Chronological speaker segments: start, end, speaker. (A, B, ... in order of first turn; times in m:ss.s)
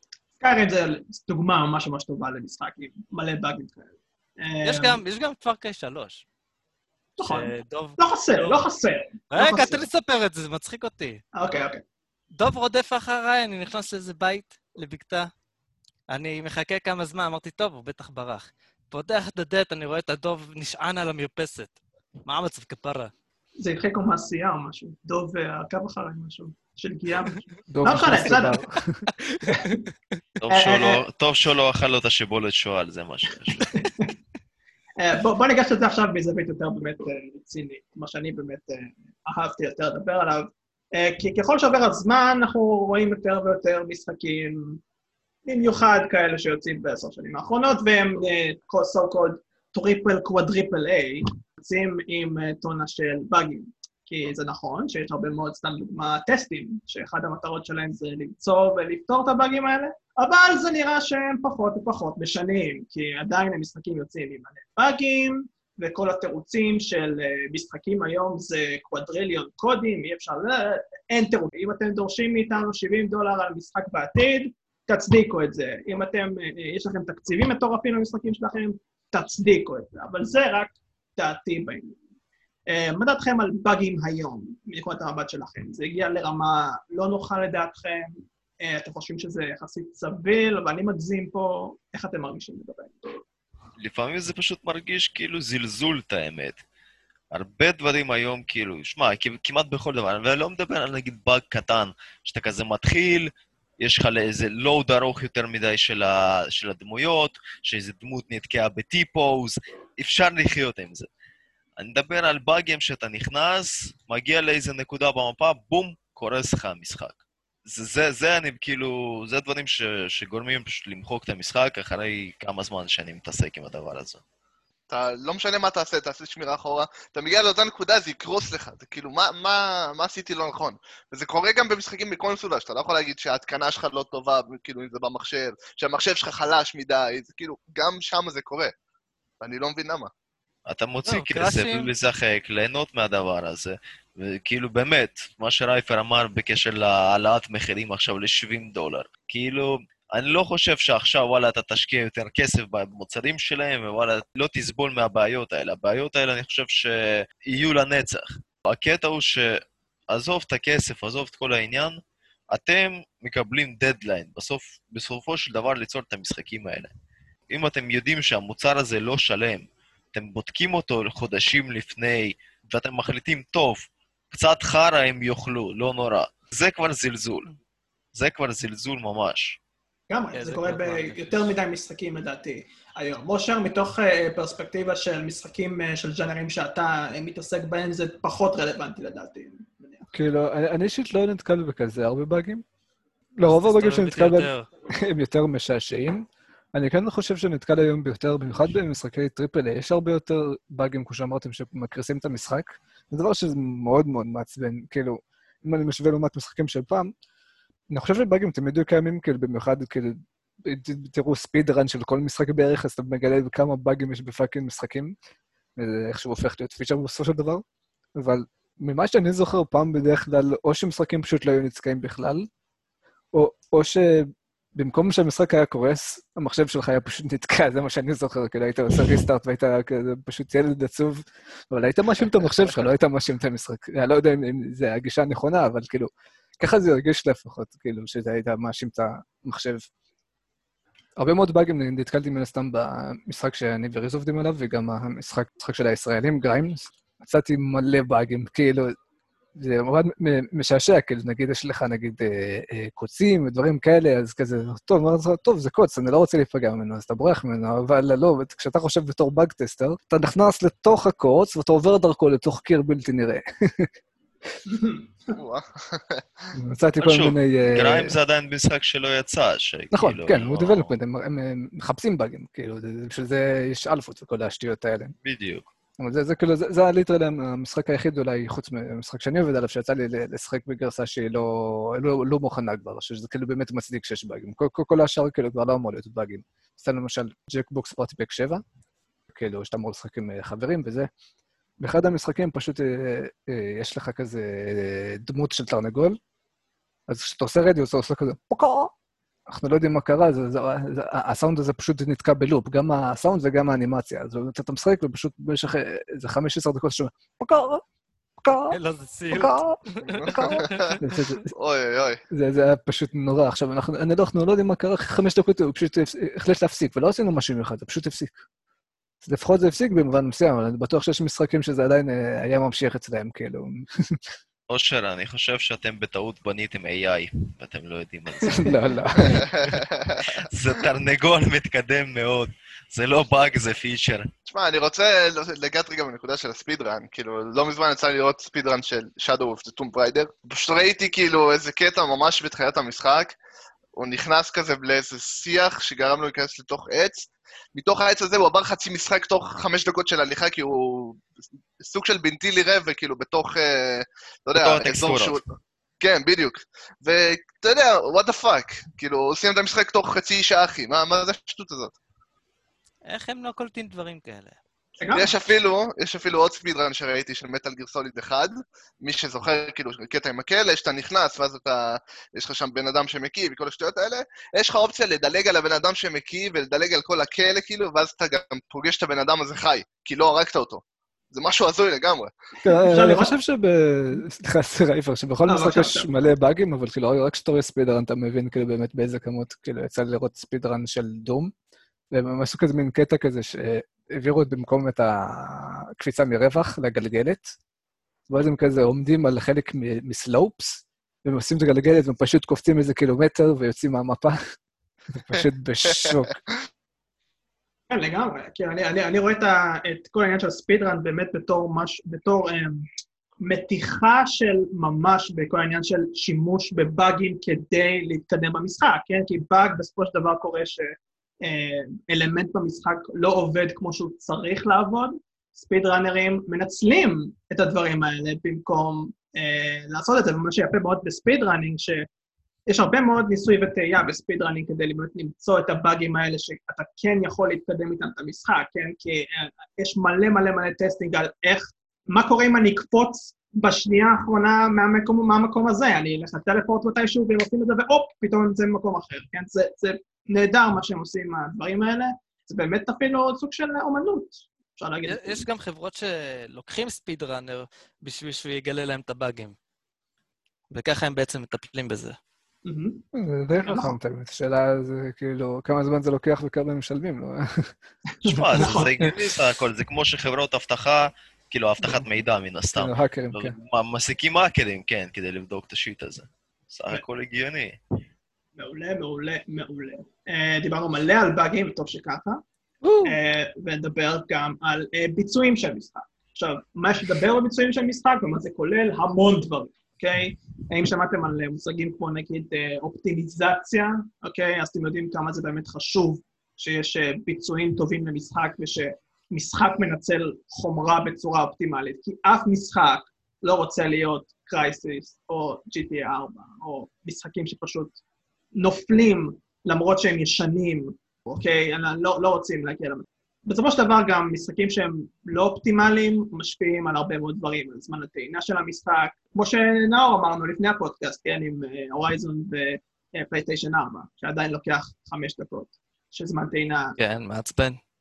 0:00.4-0:05.0 A
0:04.6-0:06.2 B
0:07.2-0:09.9 A
0:07.2-0:08.6 B
0:09.3-0:11.2 B
0:11.4-0:11.8 A
0:12.4-0:15.3 B
0:16.1-0:23.1 B
0:23.6-0:28.6 A
0:27.7-0:29.1 C
0:29.2-0:29.8 B
0:30.4-0:33.9 D
0:30.5-0:31.0 A
0:33.7-0:34.1 A
0:35.0-0:44.8 A
0:45.5-1:22.0 A
1:22.7-1:33.2 A
1:33.8-1:36.6 D
1:37.3-1:51.1 D
1:51.8-2:04.2 D
2:04.9-2:18.7 E
2:19.4-2:20.1 E
2:20.7-2:42.0 D
2:21.0-2:21.9 B
2:42.5-2:46.9 D
2:47.5-2:57.5 D
2:58.1-2:59.6 D
3:00.1-3:10.1 A
3:00.3-3:01.5 B
3:10.1-3:12.6 C
3:13.4-3:27.1 C
3:13.4-3:14.7 B
3:27.9-3:35.1 C
3:35.8-3:37.6 C
3:38.2-3:42.5 C
3:43.3-3:56.1 C
3:56.6-3:59.8 C
4:01.2-4:08.9 C
4:09.6-4:23.9 C
4:24.7-4:25.4 A
4:25.4-4:26.5 E
4:26.5-4:28.1 C
4:27.0-4:30.9 D
4:29.9-4:35.2 C
4:35.2-4:35.6 D
4:36.0-4:48.6 C
4:49.3-4:51.1 C
4:51.8-4:56.2 C
4:57.1-4:58.9 C
4:59.5-5:07.8 C
5:08.4-5:08.8 C
5:08.7-5:11.0 B
5:09.3-5:11.5 C
5:10.2-5:11.0 E
5:11.5-5:12.2 E
5:12.3-5:18.4 C
5:19.2-5:24.3 C
5:24.7-5:28.7 D
5:28.5-5:29.7 C
5:29.3-5:30.4 E
5:30.4-5:34.3 D
5:34.5-5:43.4 E
5:43.9-5:51.2 E
5:51.8-5:55.4 E
5:54.6-5:55.4 D
5:56.0-6:02.0 E
6:03.1-6:04.6 B
6:05.0-6:05.4 A
6:05.1-6:22.3 E
6:22.6-6:23.4 A
6:22.6-6:31.5 C
6:25.5-6:26.2 A
6:32.1-6:37.5 C
6:38.3-6:44.4 C
6:45.1-6:46.4 C
6:47.9-6:52.9 A
6:53.4-7:12.1 A
7:12.7-7:35.4 A
7:35.1-7:39.6 B
7:40.7-7:42.2 B
7:42.6-7:43.0 A
7:43.1-7:47.7 C
7:43.7-7:44.0 A
7:48.2-7:49.0 A
7:48.2-7:57.8 D
7:52.8-7:53.6 C
7:58.6-8:02.4 A
8:02.8-8:03.2 B
8:03.0-8:28.0 A
8:28.6-8:47.0 A
8:47.0-8:47.8 B